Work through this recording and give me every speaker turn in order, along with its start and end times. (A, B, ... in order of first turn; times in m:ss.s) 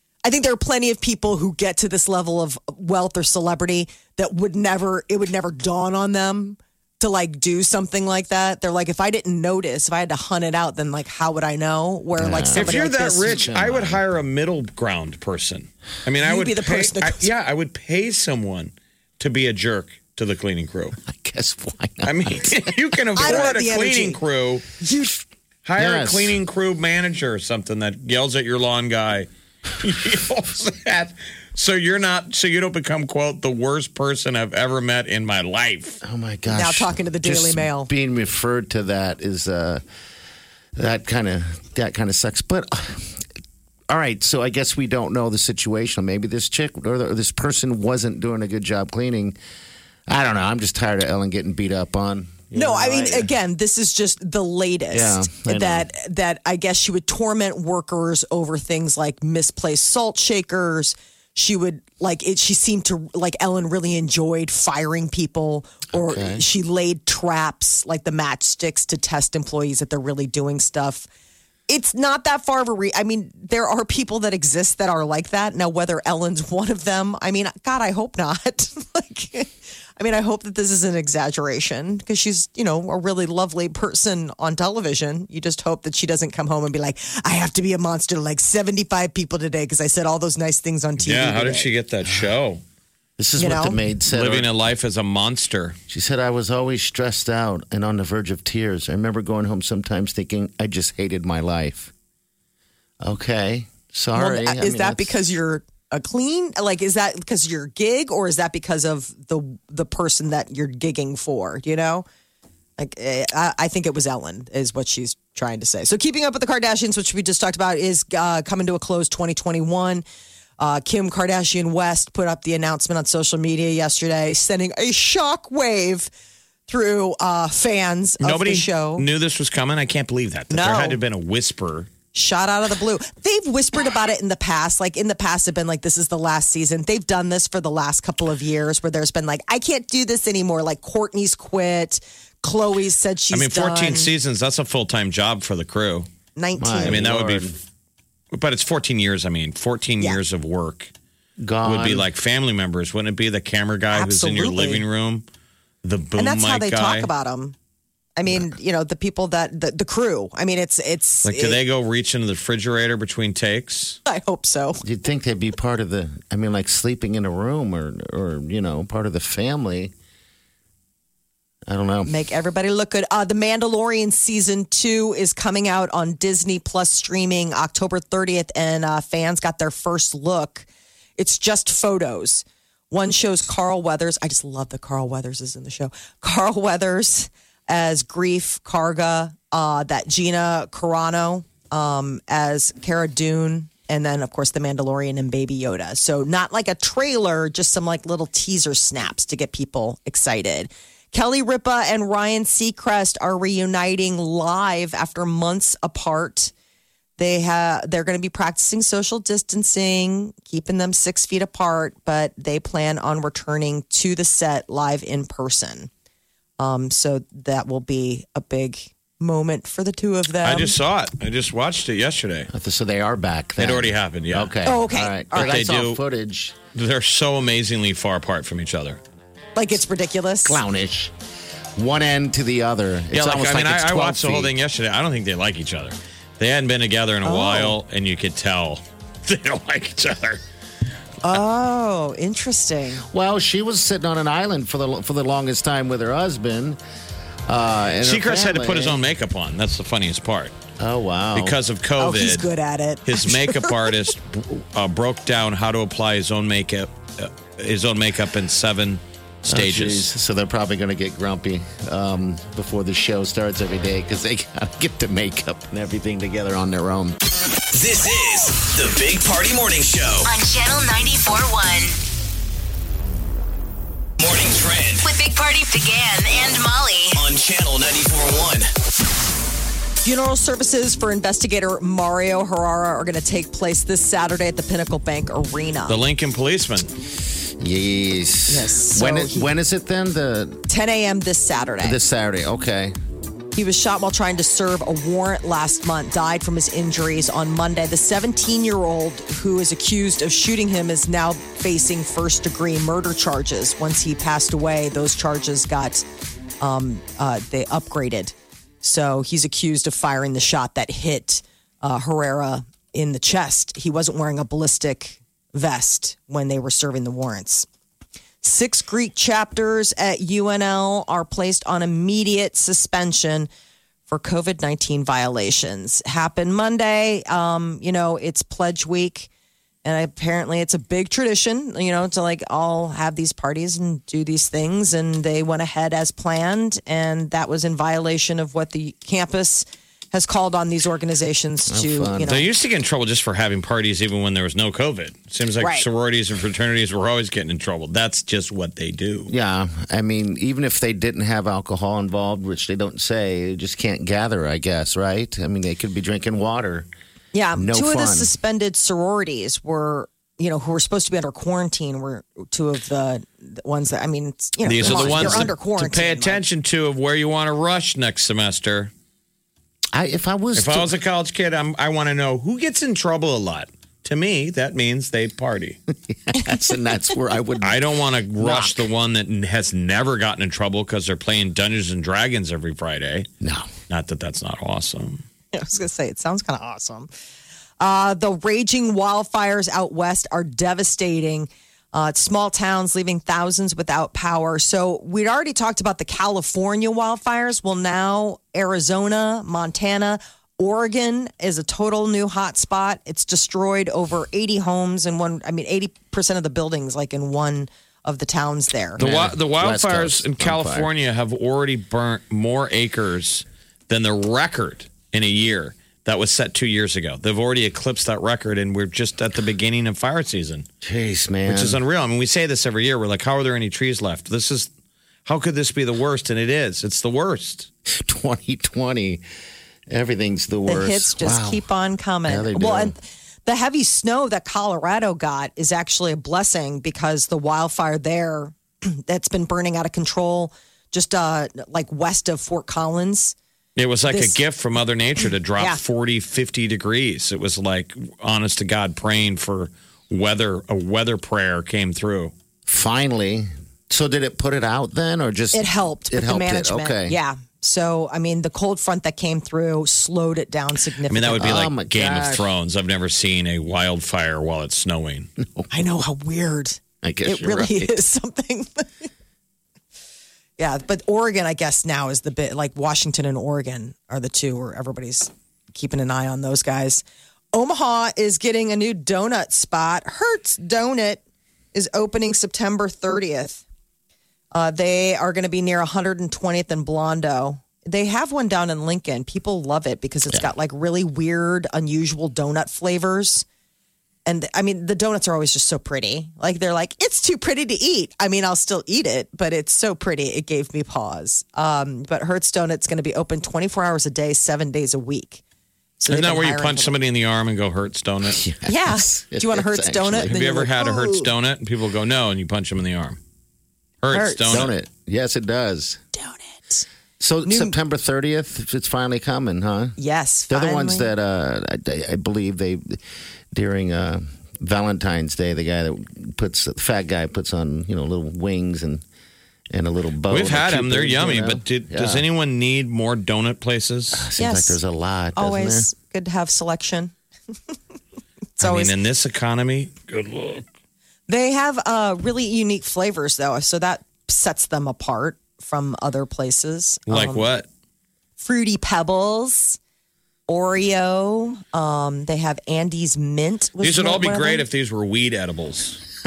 0:00.2-0:13.4 A
0:12.2-0:14.0 B
0:12.5-0:21.0 C
0:16.2-0:17.3 A
0:21.0-0:23.4 B
0:22.0-0:24.7 C
0:23.2-0:24.2 A
0:24.8-0:25.2 A
0:25.7-0:36.0 C
0:25.8-0:26.4 B
0:36.0-0:39.8 B
0:36.5-0:37.9 A
0:40.8-0:43.2 B
0:43.9-0:49.4 B
0:50.1-0:53.3 B
0:52.5-1:11.1 A
0:54.9-0:55.9 B
1:05.9-1:06.4 B
1:11.7-1:31.7 A
1:31.0-1:32.6 C
1:33.2-1:34.5 B
1:33.4-1:33.8 A
1:34.1-1:35.8 C
1:35.9-1:41.9 B
1:43.0-1:45.2 B
1:44.2-1:52.1 A
1:52.8-2:00.0 A
2:00.6-2:06.1 A
2:06.7-2:09.1 A
2:08.2-2:11.9 C
2:10.5-2:11.0 A
2:12.1-2:24.1 A
2:23.3-2:26.1 C
2:26.4-2:27.0 A
2:26.6-2:27.6 B
2:26.8-2:27.6 C
2:28.3-2:30.9 C
2:31.4-2:32.1 B
2:31.6-2:35.2 C
2:33.9-2:34.8 A
2:35.8-2:37.1 C
2:36.2-2:37.6 A
2:38.2-2:41.6 A
2:41.2-2:44.0 C
2:44.1-2:44.8 A
2:44.8-2:49.9 B
2:51.7-2:52.1 B
2:52.1-3:26.5 A
3:27.2-3:35.9 A
3:36.6-3:40.8 A
3:40.4-3:42.5 C
3:42.5-3:46.6 B
3:43.6-3:44.6 C
3:44.7-3:45.6 A
3:45.3-3:46.0 C
3:46.8-3:49.0 C
3:49.6-3:50.6 A
3:50.4-3:51.1 B
3:51.8-3:54.5 B
3:53.1-4:00.4 C
3:57.2-3:57.8 A
4:01.2-4:03.0 A
4:03.1-4:06.8 B
4:07.5-4:09.0 B
4:08.0-4:10.5 C
4:10.8-4:11.6 B
4:11.4-4:12.5 C
4:12.0-4:13.9 A
4:13.1-4:20.1 C
4:19.5-4:27.2 B
4:27.7-4:30.3 D
4:30.2-4:32.0 E
4:34.2-4:35.1 D
4:35.0-4:37.2 E
4:37.2-4:38.7 D
4:40.0-4:46.0 A
4:45.9-4:46.9 C
4:47.6-4:50.6 B
4:48.5-4:49.5 A
4:50.7-4:52.0 A
4:51.8-4:53.0 B
4:53.5-5:06.0 A
5:06.6-5:17.7 A
5:18.4-5:23.5 A
5:24.1-5:29.3 A
5:29.8-5:42.5 A
5:41.7-5:42.4 B
5:42.2-5:49.3 C
5:45.6-5:45.9 A
5:49.3-5:56.9 B
5:57.3-6:06.4 A
5:57.6-5:58.3 B
6:04.7-6:08.9 C
6:04.8-6:05.5 B
6:09.9-6:10.9 B
6:10.6-6:15.8 C
6:16.1-6:17.8 B
6:17.6-6:23.3 C
6:18.4-6:18.8 B
6:23.4-6:23.7 B
6:23.9-6:25.2 C
6:25.5-6:27.1 A
6:27.8-6:49.0 A
6:49.0-6:50.9 B
6:49.0-7:00.7 C
7:00.8-7:01.8 B
7:01.5-7:04.7 C
7:05.3-7:07.7 C
7:07.9-7:09.2 B
7:09.9-7:11.6 B
7:10.7-7:23.4 A
7:12.3-7:13.0 B
7:23.8-7:32.3 C
7:24.1-7:24.4 A
7:32.7-7:37.2 B
7:35.5-7:41.7 A
7:41.1-7:45.3 C
7:41.3-7:42.5 B
7:45.4-7:45.7 B
7:45.7-7:49.1 A
7:47.0-7:48.0 B
7:50.6-8:01.2 A
8:01.7-8:03.6 A
8:04.5-8:13.4 A
8:14.3-8:25.4 A
8:26.0-8:27.0 A
8:26.1-8:28.4 C
8:28.3-8:30.4 B
8:28.7-8:31.3 A
8:30.3-8:33.2 C
8:34.0-8:34.7 C
8:34.1-8:34.6 A
8:34.5-8:36.0 B
8:36.1-8:36.8 A
8:37.2-8:40.0 B
8:37.4-8:37.7 A
8:40.0-8:41.1 A
8:40.5-8:43.0 B
8:43.5-8:49.0 B
8:49.7-8:52.3 B
8:50.3-8:54.3 C
8:54.1-8:55.9 B
8:54.4-8:54.8 A
8:55.4-8:57.1 A
8:58.6-8:58.9 A
8:58.6-9:00.6 C
9:01.3-9:07.5 A
9:07.1-9:07.7 C
9:08.4-9:09.8 A
9:10.5-9:14.6 A
9:13.8-9:16.0 C